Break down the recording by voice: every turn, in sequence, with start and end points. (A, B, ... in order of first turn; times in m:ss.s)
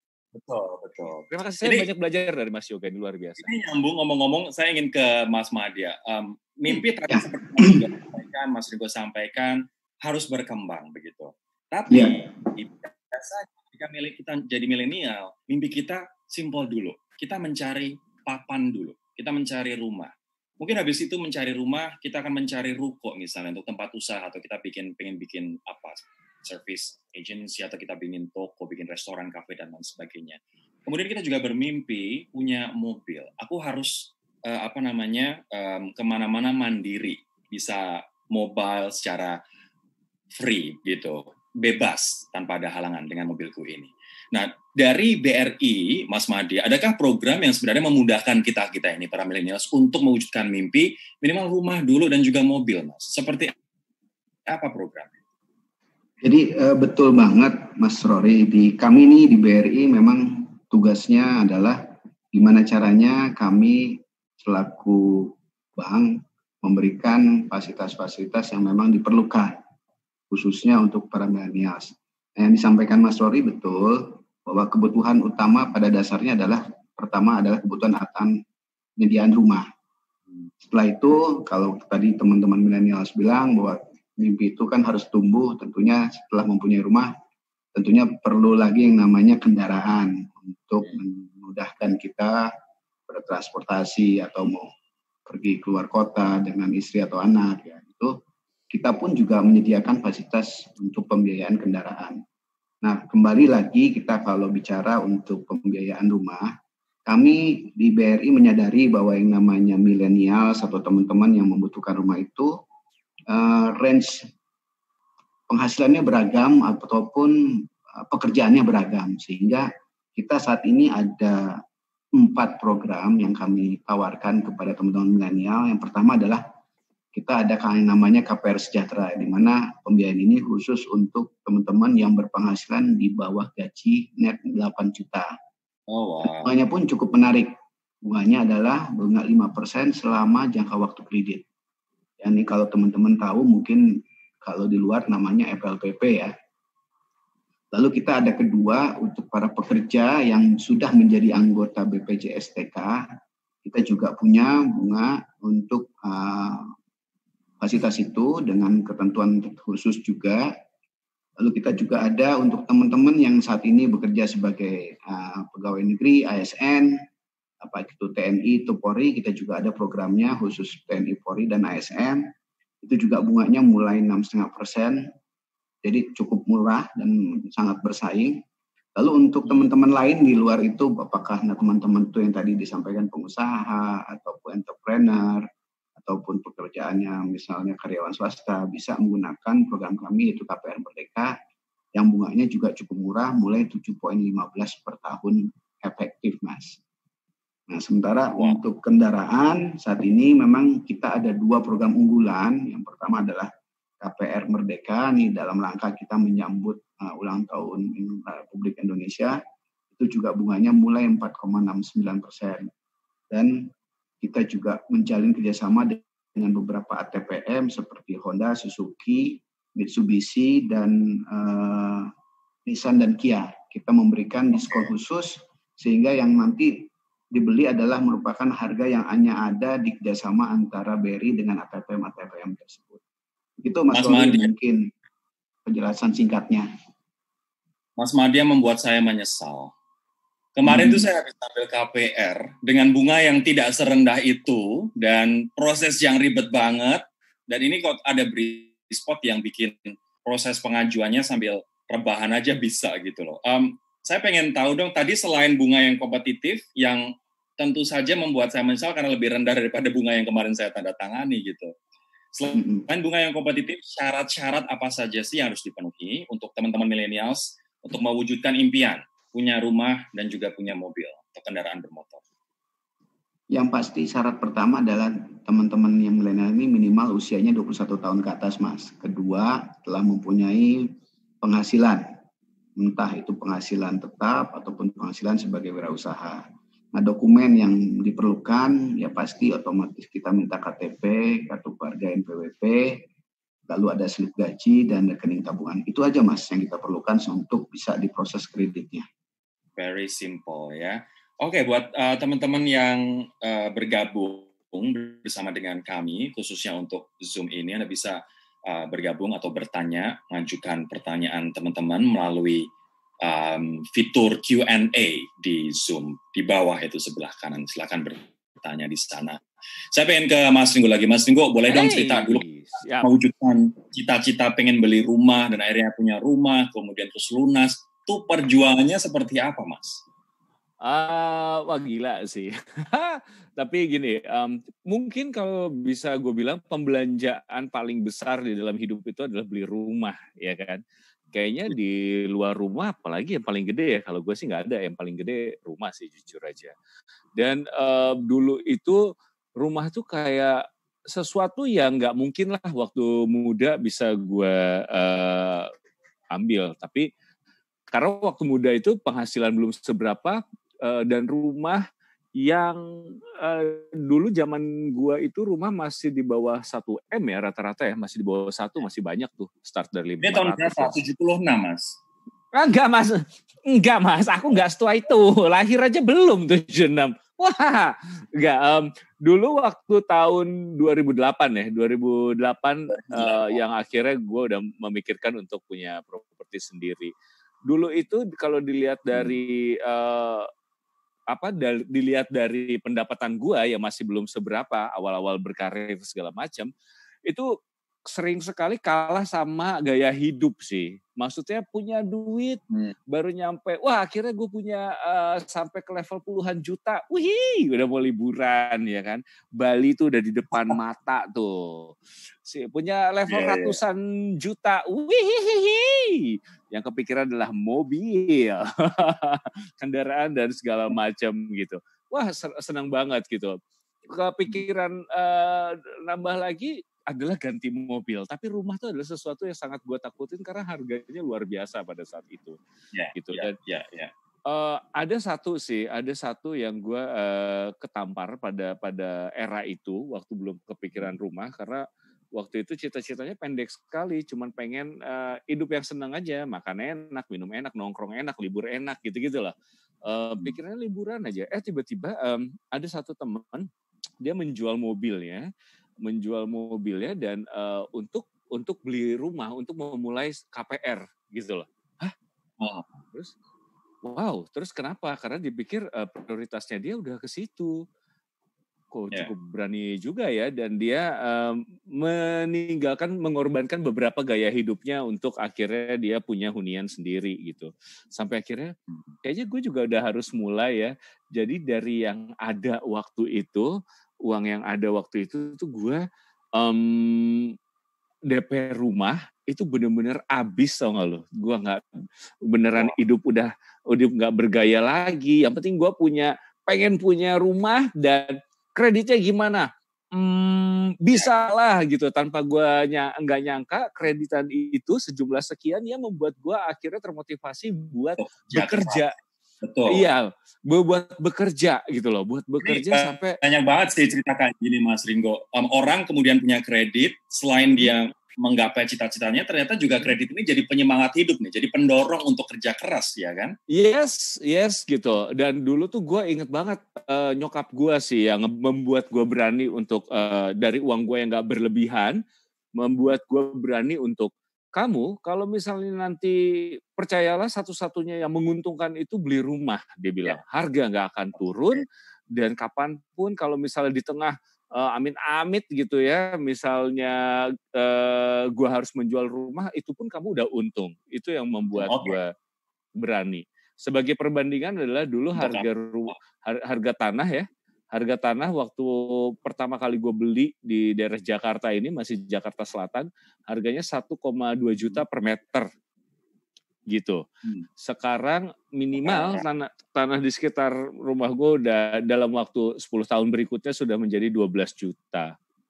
0:00.4-0:01.9 A
0:01.3-0:03.4 B
0:03.4-0:39.4 A
0:06.7-0:07.9 C
0:11.9-0:12.3 C
0:40.4-0:53.5 A
0:54.5-0:55.1 A
0:56.2-1:01.8 C
1:02.3-1:09.6 C
1:10.3-1:18.4 C
1:19.0-1:19.7 C
1:20.6-1:27.1 C
1:27.8-1:32.5 C
1:33.1-1:34.7 C
1:35.3-1:38.2 C
1:38.7-1:42.2 C
1:42.8-1:46.5 C
1:47.1-1:52.5 C
1:53.3-1:54.3 C
1:55.5-2:01.6 C
2:02.1-2:06.4 C
2:07.1-2:15.3 C
2:15.9-2:16.5 A
2:16.2-2:21.4 C
2:22.2-2:23.9 C
2:24.4-2:26.3 C
2:27.7-2:33.1 C
2:33.6-2:36.7 C
2:37.6-2:40.5 C
2:41.4-2:47.0 C
2:47.6-2:52.2 C
2:52.8-2:55.0 C
2:55.8-2:58.4 C
2:59.0-3:05.5 C
3:06.0-3:11.3 C
3:12.0-3:16.8 C
3:17.7-3:23.5 C
3:24.0-3:29.4 C
3:30.0-3:32.7 C
3:33.3-3:33.7 C
3:34.2-3:42.1 C
3:42.7-3:53.0 C
3:53.6-3:54.9 C
3:53.9-3:54.5 A
3:55.7-3:56.7 C
3:58.0-3:59.7 A
4:00.6-4:21.7 A
4:00.6-4:01.1 C
4:22.4-4:32.2 A
4:22.5-4:22.8 C
4:33.5-4:40.9 C
4:41.4-4:42.0 C
4:42.8-4:53.0 C
4:53.7-4:59.1 C
4:59.8-5:12.7 A
5:13.2-5:19.4 A
5:19.9-5:22.4 A
5:21.7-5:23.1 B
5:23.0-5:30.0 A
5:30.8-5:40.8 B
5:41.3-5:46.7 B
5:47.4-5:55.7 B
5:56.3-5:57.1 B
5:57.9-6:01.8 B
6:02.4-6:10.9 B
6:10.2-6:12.0 A
6:12.5-6:27.1 B
6:22.9-6:23.6 A
6:27.7-6:30.5 B
6:31.3-6:36.7 B
6:38.1-7:03.6 B
6:53.3-6:53.8 A
7:04.1-7:12.6 B
7:12.9-7:14.1 A
7:13.2-7:13.6 B
7:14.5-7:33.7 B
7:34.2-7:35.5 B
7:36.0-7:42.1 B
7:42.6-7:42.9 A
7:44.0-7:47.8 B
7:48.9-8:03.7 B
8:04.2-8:06.0 B
8:06.6-8:07.5 B
8:08.3-8:11.8 B
8:12.5-8:29.1 B
8:28.2-8:29.1 A
8:29.6-8:30.0 A
8:29.9-8:33.4 B
8:32.6-8:43.6 A
8:43.7-8:52.2 B
8:52.8-9:12.3 B
9:11.8-9:12.2 A
9:13.0-9:25.7 B
9:15.4-9:16.1 A
9:26.9-9:27.2 B
9:27.8-9:35.4 B
9:29.0-9:29.4 A